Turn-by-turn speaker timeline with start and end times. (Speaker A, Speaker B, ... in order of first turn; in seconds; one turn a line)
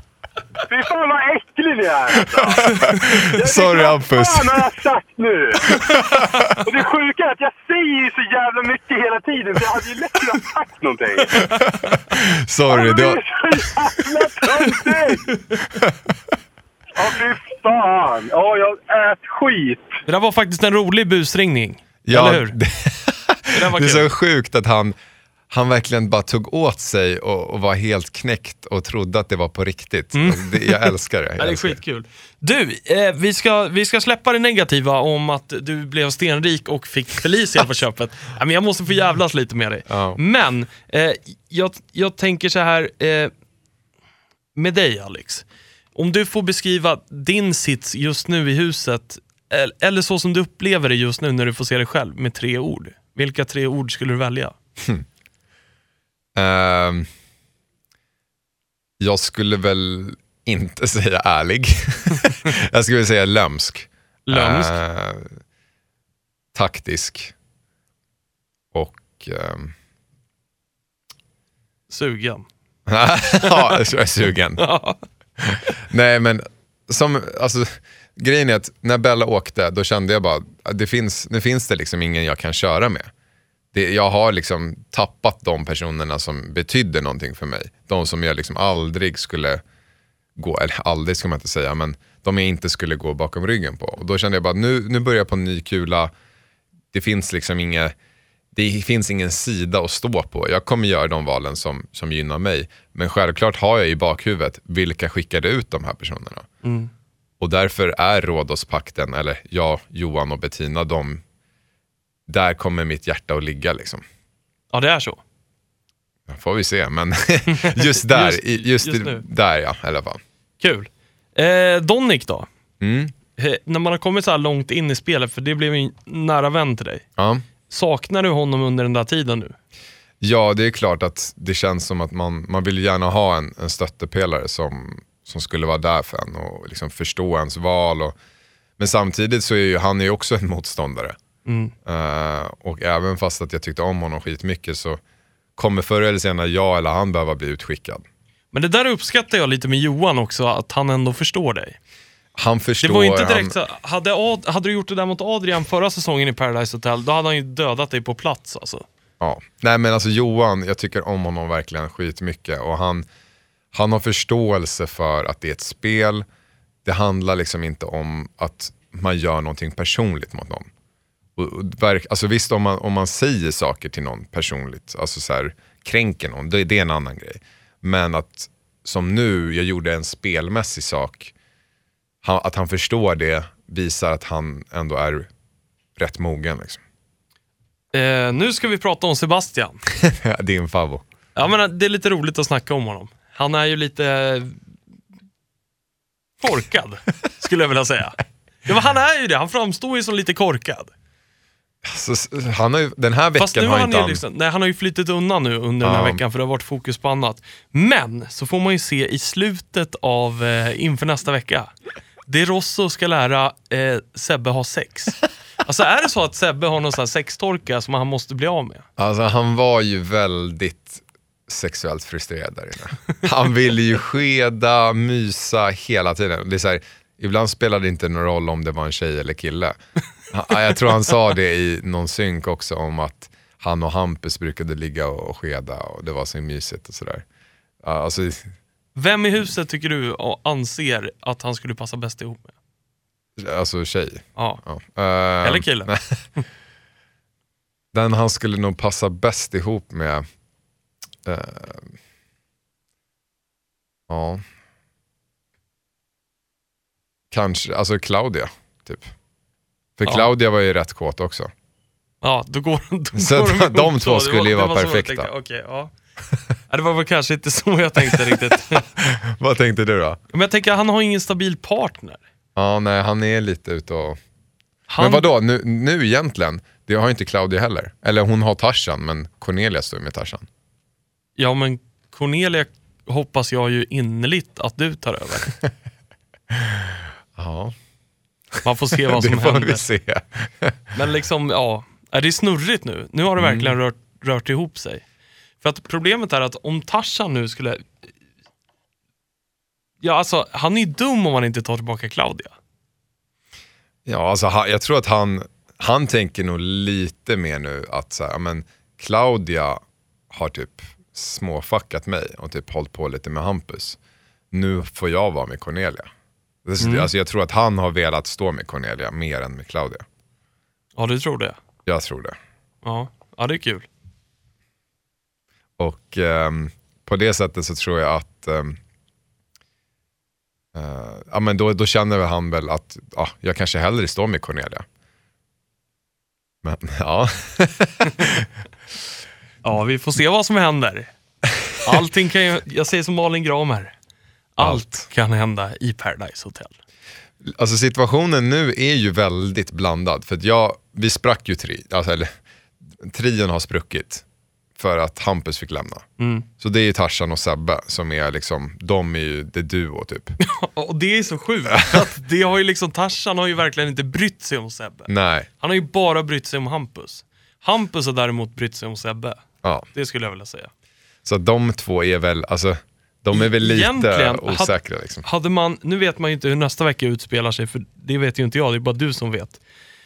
Speaker A: 0.7-5.8
Speaker B: 2.2-4.7
Speaker C: 2.7-3.1
Speaker B: 5.8-6.5
Speaker A: 6.6-11.4
Speaker B: 11.6-13.2
Speaker A: 12.7-15.2
Speaker A: 17.0-20.0
Speaker C: 20.1-22.6
Speaker B: 22.1-25.0
Speaker C: 23.5-24.1
Speaker B: 25.5-31.8
Speaker C: 30.1-43.3
Speaker B: 39.9-40.2
Speaker C: 44.6-54.5
Speaker B: 56.4-57.1
Speaker B: 59.0-65.4
Speaker C: 64.2-64.8
Speaker B: 66.5-67.3
Speaker B: 68.7-69.8
Speaker C: 71.9-72.5
Speaker B: 72.9-74.6
Speaker C: 73.4-73.8
Speaker C: 74.6-75.0
Speaker B: 75.4-83.1
Speaker B: 83.7-89.6
Speaker B: 90.4-96.1
Speaker B: 96.9-98.0
Speaker B: 98.5-106.5
Speaker C: 106.6-106.9
Speaker B: 107.4-111.2
Speaker B: 112.3-114.0
Speaker C: 114.7-115.2
Speaker B: 116.3-120.2
Speaker C: 117.5-119.2
Speaker C: 120.6-122.5
Speaker B: 122.8-123.1
Speaker C: 123.4-127.0
Speaker B: 127.2-127.5
Speaker C: 127.7-129.6
Speaker B: 130.2-138.2
Speaker B: 138.8-141.2
Speaker C: 141.5-141.7
Speaker B: 141.9-145.0
Speaker B: 145.6-148.1
Speaker C: 148.5-151.8
Speaker B: 152.4-153.6
Speaker C: 152.8-158.9
Speaker B: 159.2-163.1
Speaker B: 163.7-166.2
Speaker B: 166.8-170.7
Speaker B: 171.4-181.3
Speaker B: 182.2-185.3
Speaker B: 186.0-186.8
Speaker C: 187.9-189.8
Speaker B: 190.0-191.0
Speaker C: 191.4-194.6
Speaker C: 196.4-200.9
Speaker B: 201.8-204.2
Speaker C: 203.4-211.7
Speaker B: 205.8-206.2
Speaker C: 212.3-218.8
Speaker B: 219.0-229.8
Speaker B: 230.3-237.2
Speaker B: 237.8-238.5
Speaker C: 239.0-242.5
Speaker B: 243.4-246.2
Speaker C: 245.4-246.4
Speaker B: 247.9-250.2
Speaker B: 251.2-251.9
Speaker B: 254.1-254.4
Speaker B: 257.3-259.1
Speaker B: 260.0-261.5
Speaker C: 262.2-265.9
Speaker B: 263.1-265.3
Speaker C: 266.7-268.9
Speaker B: 269.0-270.2
Speaker C: 270.3-272.2
Speaker B: 272.6-274.2
Speaker C: 274.9-275.3
Speaker B: 275.0-280.5
Speaker C: 281.4-285.5
Speaker B: 286.5-287.8
Speaker B: 288.6-290.8
Speaker C: 288.6-289.9
Speaker C: 290.9-295.0
Speaker B: 293.4-293.8
Speaker C: 295.6-297.9
Speaker C: 300.0-302.5
Speaker B: 304.1-314.0
Speaker B: 314.5-316.1
Speaker B: 316.6-320.1
Speaker C: 316.8-317.1
Speaker C: 321.0-321.6
Speaker B: 321.9-322.4
Speaker C: 322.8-323.9
Speaker B: 325.8-328.8
Speaker B: 330.7-334.9
Speaker B: 336.6-338.5
Speaker C: 339.6-341.1
Speaker C: 341.8-343.9
Speaker C: 344.6-346.7
Speaker B: 344.6-345.1
Speaker B: 347.4-352.3
Speaker B: 353.0-354.2
Speaker B: 354.8-356.1
Speaker C: 356.2-356.5
Speaker B: 356.6-360.4
Speaker C: 360.4-369.4
Speaker B: 365.1-365.5
Speaker C: 369.9-370.7
Speaker B: 371.2-375.2
Speaker C: 373.3-379.6